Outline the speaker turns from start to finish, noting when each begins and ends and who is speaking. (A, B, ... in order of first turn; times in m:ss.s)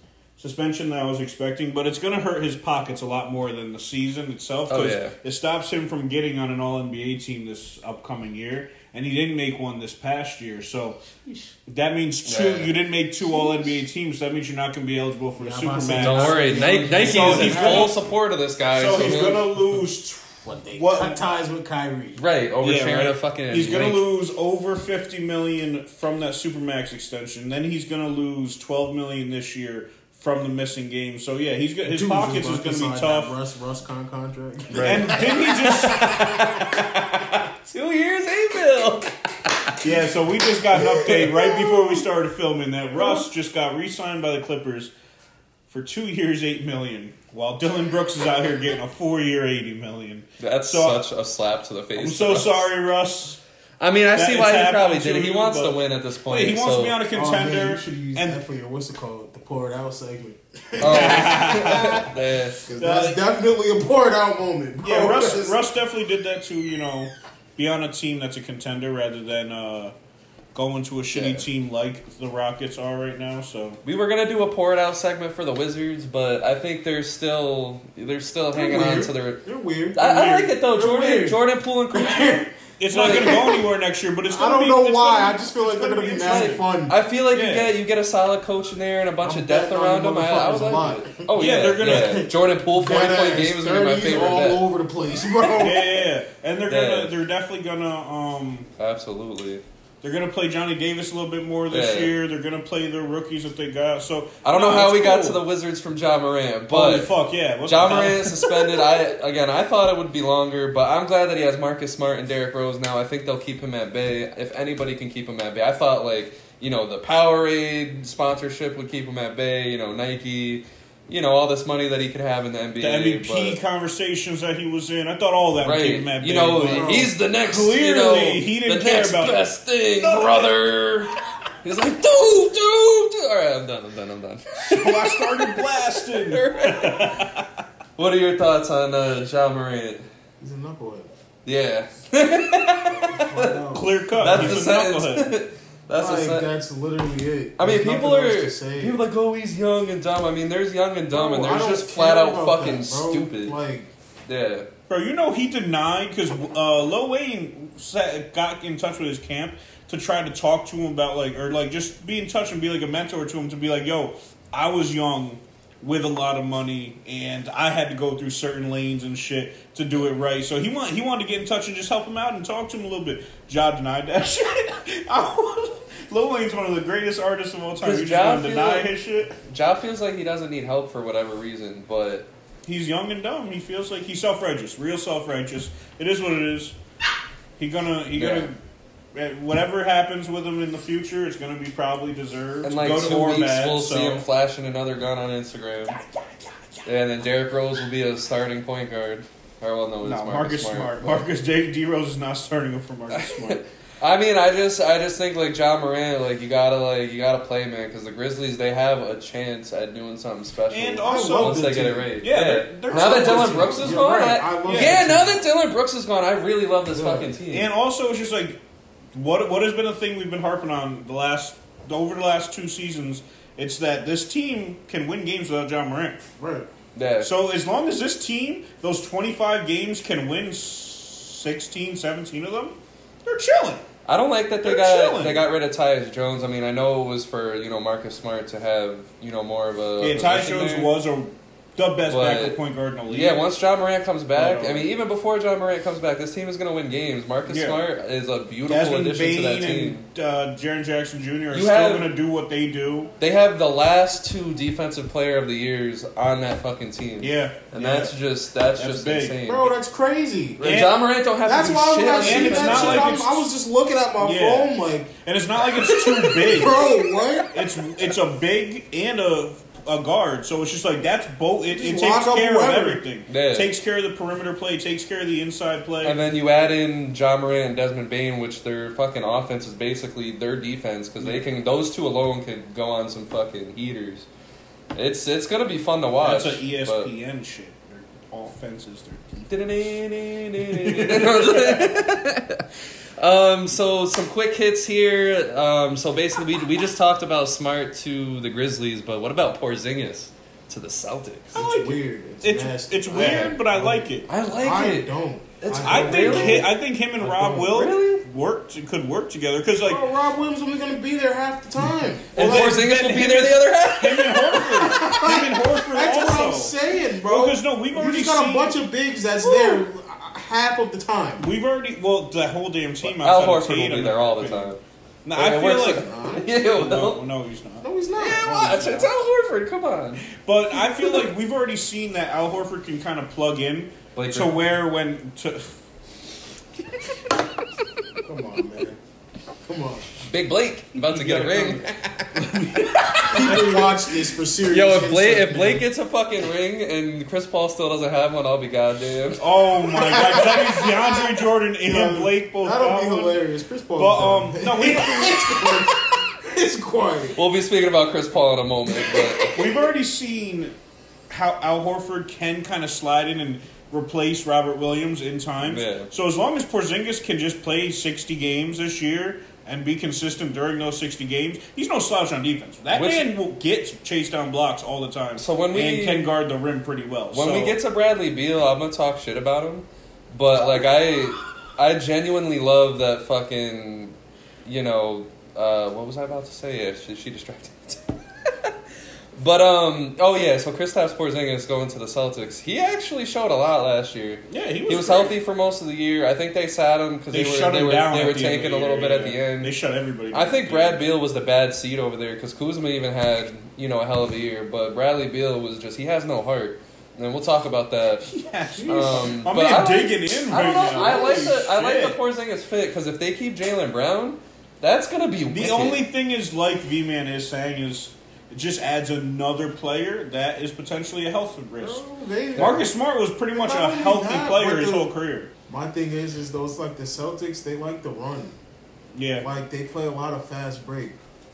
0:00.4-0:11.0 A
0:04.7-0:05.1 B
0:11.2-0:11.5 C
0:11.7-0:18.1 A
0:12.2-0:12.8 B
0:13.3-0:13.8 C
0:15.4-0:18.0 C
0:16.0-0:19.5 B
0:18.7-0:21.2 A
0:19.0-0:19.4 C
0:20.4-0:22.2 C
0:22.2-0:24.0 B
0:22.6-0:33.4 A
0:31.8-0:36.6 C
0:34.7-0:39.8 B
0:34.7-0:36.3 A
0:39.8-0:44.9 A
0:40.8-0:41.6 B
0:43.0-0:43.3 C
0:45.7-0:51.0 A
0:50.4-0:52.6 B
0:52.0-0:53.4 A
0:53.8-0:57.0 B
0:54.2-0:58.4 A
0:57.1-1:02.1 C
1:00.8-1:02.1 A
1:00.8-1:02.6 B
1:02.6-1:05.6 C
1:02.7-1:03.2 A
1:04.8-1:09.9 A
1:10.5-1:13.8 A
1:11.1-1:11.4 B
1:13.8-1:19.4 B
1:18.5-1:21.4 C
1:20.0-1:23.5 B
1:20.0-1:20.5 A
1:21.9-1:22.5 C
1:22.8-1:26.6 A
1:23.0-1:23.6 C
1:24.3-1:27.0 C
1:26.2-1:34.6 B
1:27.3-1:27.7 A
1:29.2-1:36.0 C
1:31.4-1:32.2 A
1:35.6-1:38.7 A
1:36.7-1:37.1 B
1:38.8-1:39.6 B
1:40.0-1:45.4 A
1:41.7-1:42.1 B
1:44.4-1:47.1 B
1:46.7-1:49.0 A
1:47.7-2:03.6 B
2:02.8-2:09.4 A
2:05.6-2:17.3 B
2:06.6-2:07.1 C
2:10.0-2:10.5 A
2:14.7-2:17.5 A
2:18.0-2:20.1 B
2:20.4-2:21.1 C
2:21.4-2:23.6 B
2:22.9-2:24.6 C
2:23.7-2:25.3 A
2:24.2-2:26.5 B
2:26.0-2:29.0 C
2:27.6-2:33.6 B
2:31.1-2:33.9 C
2:34.3-2:34.7 B
2:34.9-2:59.4 A
2:57.8-3:02.3 B
3:02.6-3:06.8 A
3:07.6-3:08.6 A
3:08.2-3:08.5 B
3:09.1-3:14.2 A
3:12.6-3:16.0 B
3:15.9-3:16.8 A
3:16.8-3:21.3 B
3:20.0-3:23.6 A
3:23.1-3:37.7 B
3:30.7-3:31.7 A
3:31.0-3:32.2 C
3:32.2-3:34.0 A
3:32.9-3:35.4 C
3:34.6-3:35.0 A
3:36.9-3:37.3 C
3:37.5-3:38.6 A
3:39.1-3:46.2 A
3:46.4-3:46.7 C
3:47.0-3:47.3 B
3:47.2-3:53.8 A
3:54.1-4:00.9 B
3:54.6-3:55.4 A
4:00.0-4:03.4 A
4:02.1-4:02.6 B
4:03.1-4:10.0 B
4:04.4-4:04.9 A
4:07.5-4:07.8 A
4:08.7-4:13.1 A
4:11.5-4:12.1 B
4:13.2-4:19.7 B
4:17.2-4:18.2 A
4:18.8-4:19.4 A
4:19.4-4:20.8 C
4:20.6-4:23.1 B
4:20.6-4:21.0 A
4:21.4-4:27.6 C
4:22.2-4:23.5 A
4:24.2-4:24.7 A
4:25.2-4:26.9 A
4:27.5-4:36.2 A
4:31.7-4:33.0 C
4:33.3-4:33.7 B
4:36.0-4:44.3 B
4:44.9-4:47.1 B
4:46.2-4:49.9 A
4:49.5-4:52.6 B
4:50.5-4:52.0 A
4:53.2-5:01.6 B
5:01.5-5:04.3 A
5:01.5-5:06.7 C
5:03.1-5:03.6 B
5:04.3-5:06.7 B
5:05.8-5:10.0 A
5:07.2-5:07.7 C
5:07.6-5:08.2 B
5:09.8-5:12.8 C
5:12.4-5:15.2 B
5:12.4-5:18.8 A
5:14.8-5:21.5 C
5:19.4-5:19.8 B
5:21.4-5:24.7 A
5:23.0-5:24.8 B
5:25.2-5:26.1 A
5:25.4-5:27.2 B
5:26.0-5:26.5 C
5:26.7-5:27.9 A
5:27.8-5:29.0 C
5:28.2-5:30.2 B
5:28.4-5:29.1 A
5:30.4-5:35.7 A
5:34.2-5:34.5 B
5:38.2-5:39.0 C
5:39.7-5:40.2 C
5:40.2-5:42.2 B
5:41.0-5:43.5 A
5:42.8-5:43.7 B
5:43.3-5:45.9 C
5:44.7-5:49.4 B
5:49.4-5:53.4 A
5:50.0-5:57.4 C
5:54.0-5:55.6 A
5:57.4-5:59.7 B
5:58.9-5:59.5 C
5:59.5-6:00.7 A
6:01.3-6:17.8 A
6:05.6-6:06.1 B
6:12.9-6:13.3 B
6:15.4-6:16.3 B
6:17.3-6:28.7 B
6:29.4-6:39.7 B
6:34.5-6:35.4 A
6:37.3-6:41.0 A
6:40.3-6:48.3 B
6:48.3-6:52.2 A
6:48.9-6:56.0 B
6:55.5-7:02.0 A
7:01.8-7:02.9 C
7:02.6-7:05.5 A
7:03.5-7:05.1 C
7:05.7-7:08.6 C
7:09.1-7:09.5 A
7:09.4-7:11.2 C